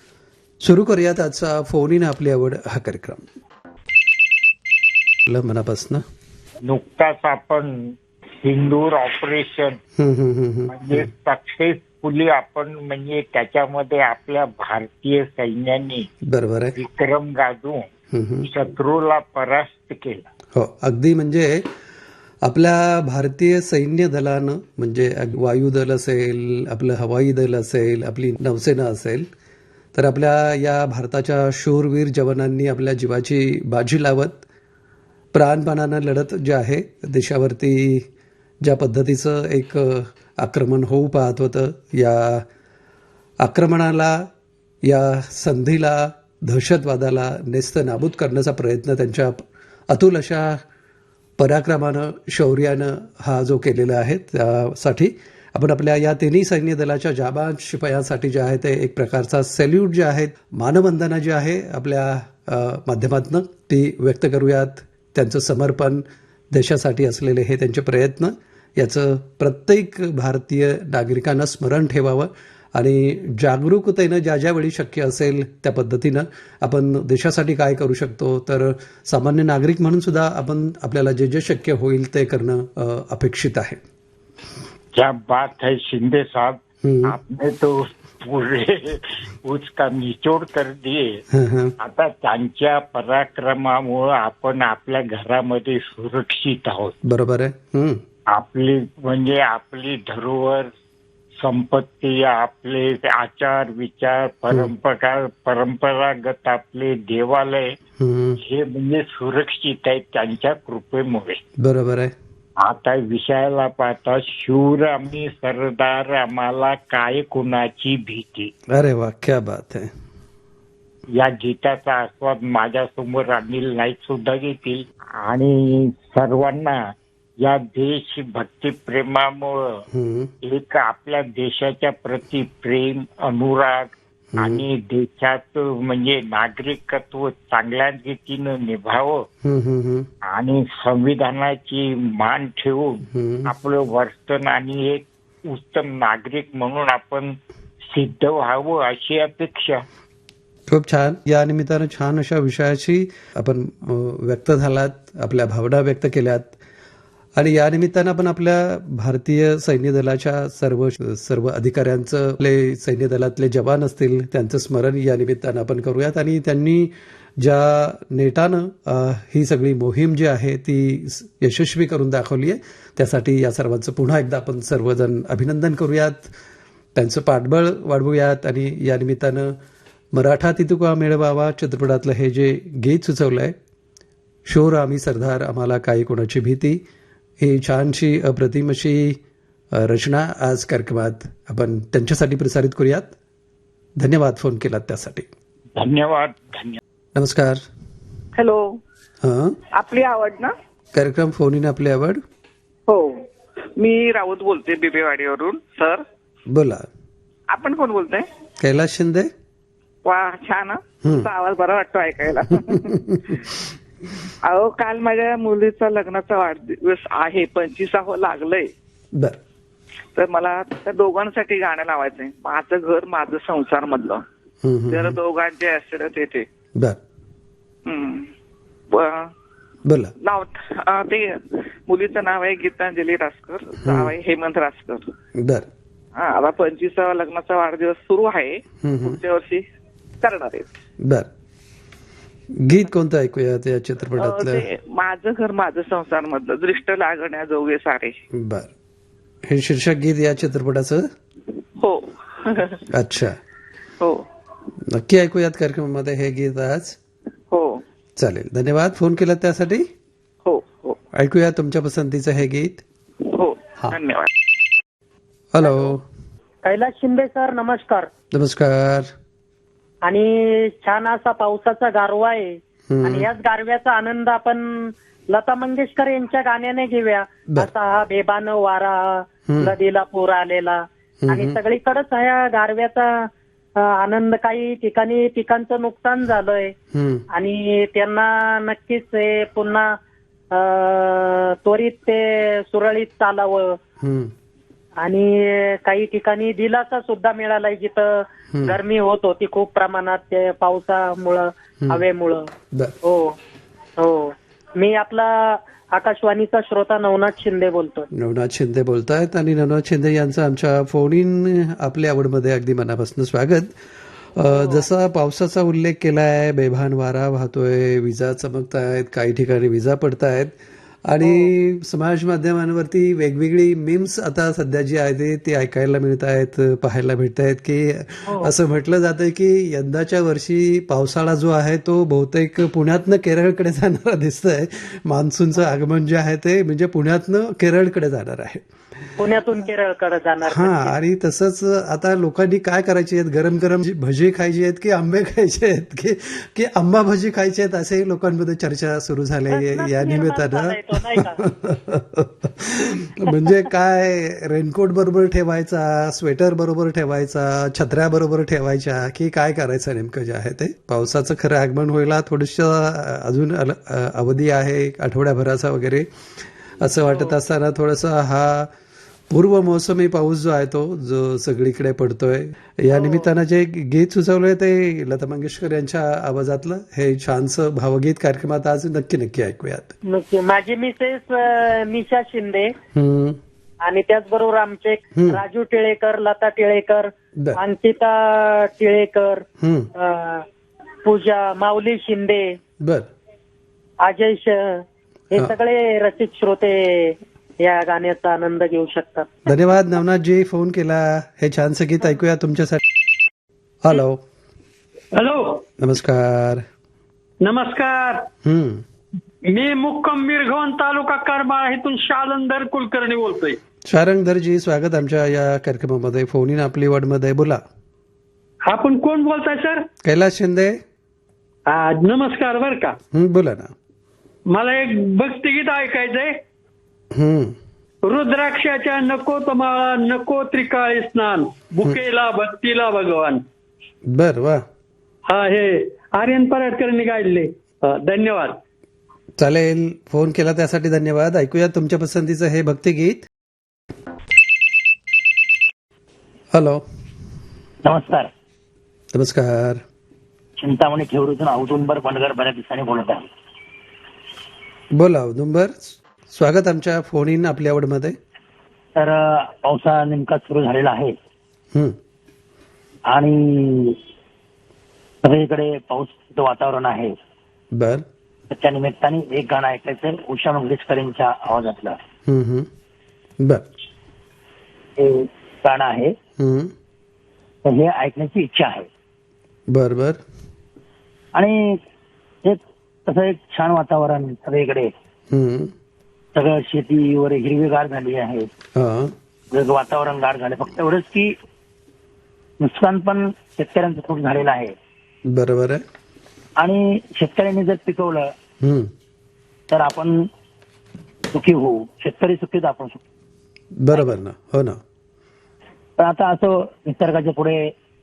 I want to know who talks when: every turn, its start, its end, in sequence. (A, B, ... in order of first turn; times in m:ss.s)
0:00.6-0:03.2 A
0:05.3-0:06.0 A
0:06.6-0:07.7 B
0:08.4-0:09.8 B
0:10.0-0:11.0 A
0:10.7-0:16.1 B
0:16.3-0:16.8 A
0:16.8-0:17.8 B
0:18.1-0:18.5 A
0:18.5-0:20.2 B
0:20.5-0:21.7 A
0:22.4-0:29.3 A
0:29.9-0:34.4 A
0:35.3-0:38.0 A
0:38.6-0:42.4 A
0:43.4-0:44.2 A
0:44.8-0:49.4 A
0:49.9-0:50.6 A
0:51.4-1:23.8 A
1:24.9-1:31.2 B
1:26.8-1:27.2 A
1:31.3-1:31.7 A
1:31.8-1:36.9 B
1:37.0-1:38.0 A
1:38.3-1:40.7 B
1:41.4-1:47.6 B
1:48.0-1:48.4 A
1:48.4-1:51.4 B
1:51.6-1:52.1 A
1:52.6-1:58.5 B
1:58.7-1:59.9 A
2:01.2-2:06.8 B
2:07.4-2:09.6 B
2:09.9-2:10.3 A
2:10.4-2:13.9 B
2:14.3-2:14.6 A
2:14.4-2:19.2 B
2:19.4-2:20.1 A
2:20.3-2:27.3 B
2:23.1-2:23.5 A
2:27.9-2:29.8 B
2:30.7-2:36.6 A
2:37.4-2:56.3 A
2:57.0-2:59.5 A
3:00.1-3:03.5 A
3:04.5-3:06.8 A
3:07.4-3:09.2 A
3:09.7-3:13.1 A
3:14.0-3:15.3 A
3:15.8-3:16.8 B
3:17.1-3:17.6 A
3:18.4-3:18.7 C
3:19.2-3:19.6 A
3:19.8-3:20.5 C
3:20.9-3:22.2 A
3:23.8-3:26.0 C
3:26.5-3:26.8 A
3:27.5-3:28.2 C
3:28.6-3:29.3 A
3:30.0-3:32.9 C
3:31.0-3:31.3 A
3:32.5-3:33.3 A
3:34.4-3:38.7 C
3:40.1-3:44.2 C
3:44.6-3:45.2 A
3:44.9-3:46.4 C
3:47.8-3:48.3 C
3:48.9-3:49.3 C
3:49.8-3:50.1 A
3:50.2-3:55.0 C
3:53.8-3:54.1 A
3:55.4-3:55.7 A
3:56.1-3:59.6 C
3:58.8-3:59.2 A
4:00.2-4:00.7 C
4:02.6-4:04.6 A
4:04.2-4:08.2 C
4:08.3-4:08.7 A
4:09.5-4:11.1 A
4:11.8-4:12.8 C
4:12.9-4:13.4 A
4:14.9-4:17.0 A
4:17.5-4:17.8 C
4:18.2-4:19.8 A
4:20.4-4:21.0 C
4:21.1-4:22.8 A
4:23.3-4:24.3 C
4:25.5-4:26.0 A
4:25.6-4:25.9 D
4:26.6-4:28.1 D
4:28.3-4:29.1 A
4:30.0-4:43.2 D
4:32.9-4:33.3 A
4:39.5-4:39.7 A
4:41.2-4:41.6 A
4:43.8-4:46.7 D
4:46.9-4:47.2 A
4:47.3-4:49.9 D
4:50.5-4:53.8 D
4:54.0-4:54.3 A
4:55.0-5:02.4 D
4:58.5-4:58.8 A
5:03.0-5:03.4 D
5:04.0-5:08.1 D
5:08.1-5:13.7 A
5:14.3-5:20.5 A
5:21.0-5:38.6 A
5:28.3-5:28.5 D
5:39.2-5:40.9 D
5:40.5-6:06.1 A
5:49.5-5:51.4 D
6:06.7-6:08.7 A
6:07.1-6:07.4 D
6:09.3-6:19.9 A
6:12.9-6:13.2 D
6:20.1-6:22.7 D
6:22.9-6:23.4 A
6:23.8-6:29.4 D
6:25.2-6:25.4 A
6:29.6-6:29.9 A
6:30.0-6:30.4 D
6:31.0-6:32.5 D
6:32.8-6:33.1 A
6:34.0-6:39.3 D
6:39.4-6:42.8 A
6:43.8-6:44.2 A
6:45.2-6:45.6 E
6:45.8-6:46.6 A
6:47.5-6:48.2 E
6:48.4-6:48.8 A
6:49.5-6:53.5 E
6:53.8-6:57.6 A
6:58.7-6:59.8 E
7:00.0-7:00.8 A
7:01.7-7:02.9 E
7:03.1-7:03.7 A
7:04.5-7:06.3 E
7:07.1-7:07.6 A
7:08.1-7:13.4 E
7:14.1-7:14.6 A
7:15.3-7:18.5 E
7:19.4-7:23.2 A
7:26.5-7:26.8 A
7:27.8-7:28.3 F
7:29.1-7:29.8 A
7:30.6-7:33.2 F
7:34.9-7:38.2 A
7:39.0-7:41.1 F
7:43.1-7:43.9 F
7:45.2-7:47.1 F
7:47.7-7:48.0 A
7:48.5-7:51.9 F
7:52.3-7:52.7 A
7:55.0-7:56.1 F
7:56.4-7:56.7 A
7:57.7-7:58.8 F
7:59.7-8:00.2 A
8:02.4-8:04.9 F
8:05.3-8:05.7 A
8:06.4-8:08.4 F
8:08.8-8:09.1 A
8:09.5-8:11.3 F
8:12.6-8:14.7 F
8:15.3-8:15.8 A
8:16.6-8:18.2 F
8:18.6-8:18.9 A
8:19.7-8:20.1 F
8:21.3-8:22.9 F
8:23.8-8:24.8 A
8:26.0-8:27.5 F